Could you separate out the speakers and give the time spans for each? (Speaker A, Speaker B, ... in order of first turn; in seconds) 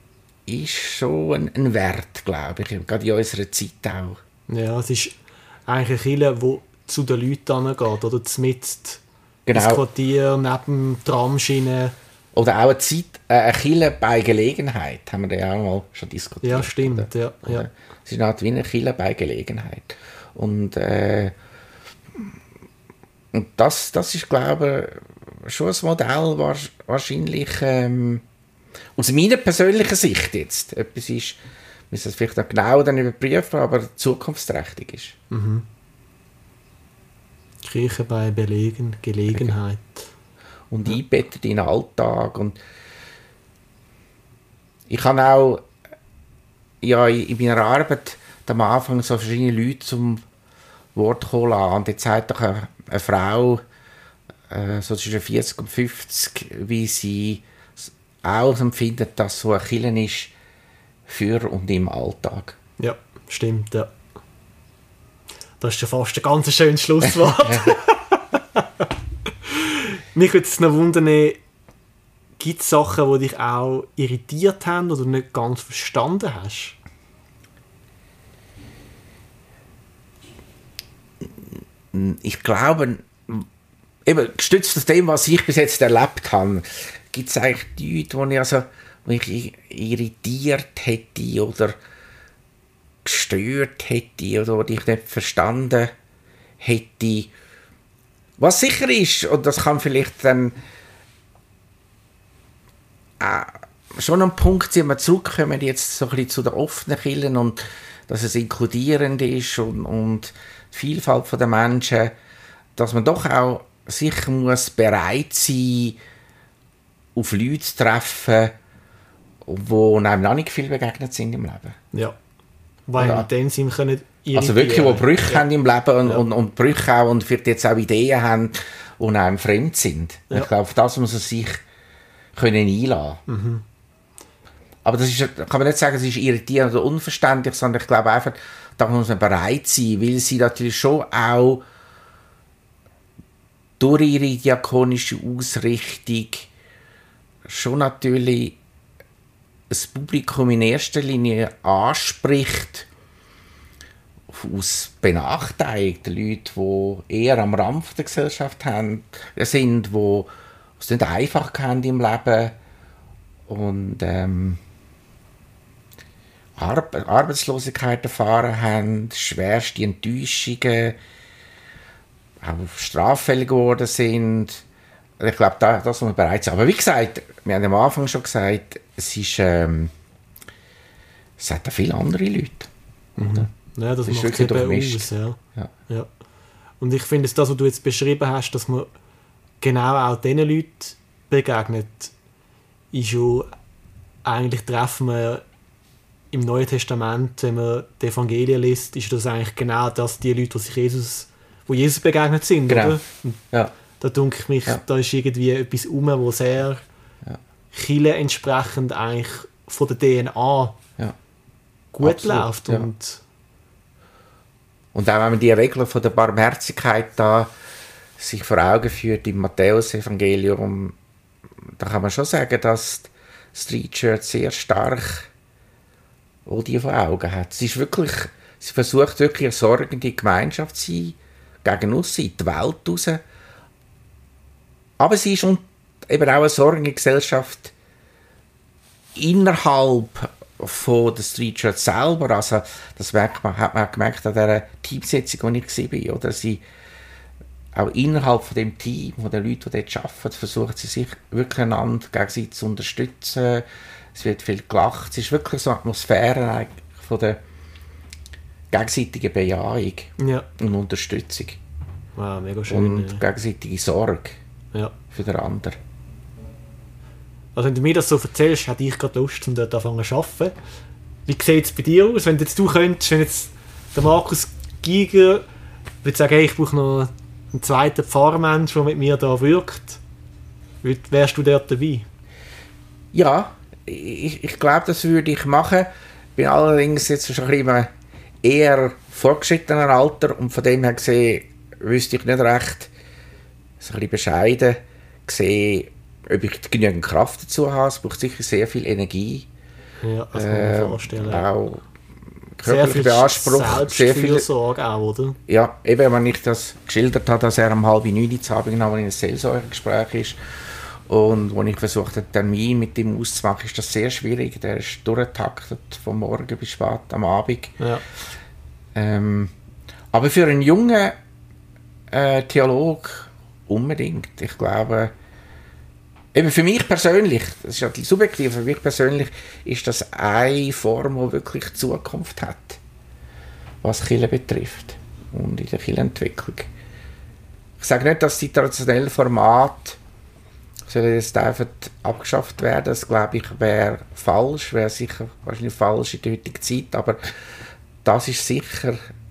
Speaker A: 0.5-4.2, 9.5-9.8, 12.3-21.3, 23.3-28.2, 29.0-31.4, 31.9-35.1, 40.7-42.5, 44.9-45.6, 46.8-50.2, 50.9-53.6, 54.5-60.3, 61.1-62.6, 81.9-83.5, 84.0-91.8, 93.0-95.9, 96.6-97.3, 98.4-100.5, 103.2-112.1, 112.8-116.0, 117.1-118.5, 119.4-121.8, 123.0-123.3, 124.3-131.6, 132.3-133.2, 134.8-141.6, 143.8-146.5, 147.4-148.6, 149.7-152.9, 154.3-162.6, 163.5-164.6, 166.6-171.0, 172.4-174.6, 175.2-179.9, 181.4-183.5, 184.1-185.7, 202.7-203.7, 212.0-212.9, 214.9-217.5, 218.2-220.9, 221.8-225.3, 226.4-233.2, 235.0-237.7, 239.1-246.6, 247.7-257.4, 258.7-261.6, 262.7-264.4, 265.1-265.8, 283.1-287.9, 288.4-292.9, 293.8-299.5, 300.3-301.8, 302.6-304.5, 305.5-310.4, 311.1-317.8, 318.9-319.5, 320.1-321.1, 322.1-325.1, 326.3-332.8, 333.8-336.7, 337.8-340.0, 340.9-347.2, 348.0-349.0
Speaker B: 4.5-9.0, 9.5-11.9, 16.4-17.7, 35.3-35.6, 37.6-40.1, 62.8-63.9, 65.6-68.8, 69.5-71.4, 72.4-76.8, 122.9-125.5, 133.3-133.6, 183.2-186.1, 186.8-188.9, 189.6-192.1, 192.9-193.5, 194.2-195.4, 196.3-203.4, 204.0-206.8, 207.7-210.8, 211.9-213.2, 260.2-260.5, 262.1-263.2, 267.5-270.5, 271.2-275.4, 276.0-280.0, 280.8-282.1, 300.0-301.5, 302.6-305.4, 317.8-318.0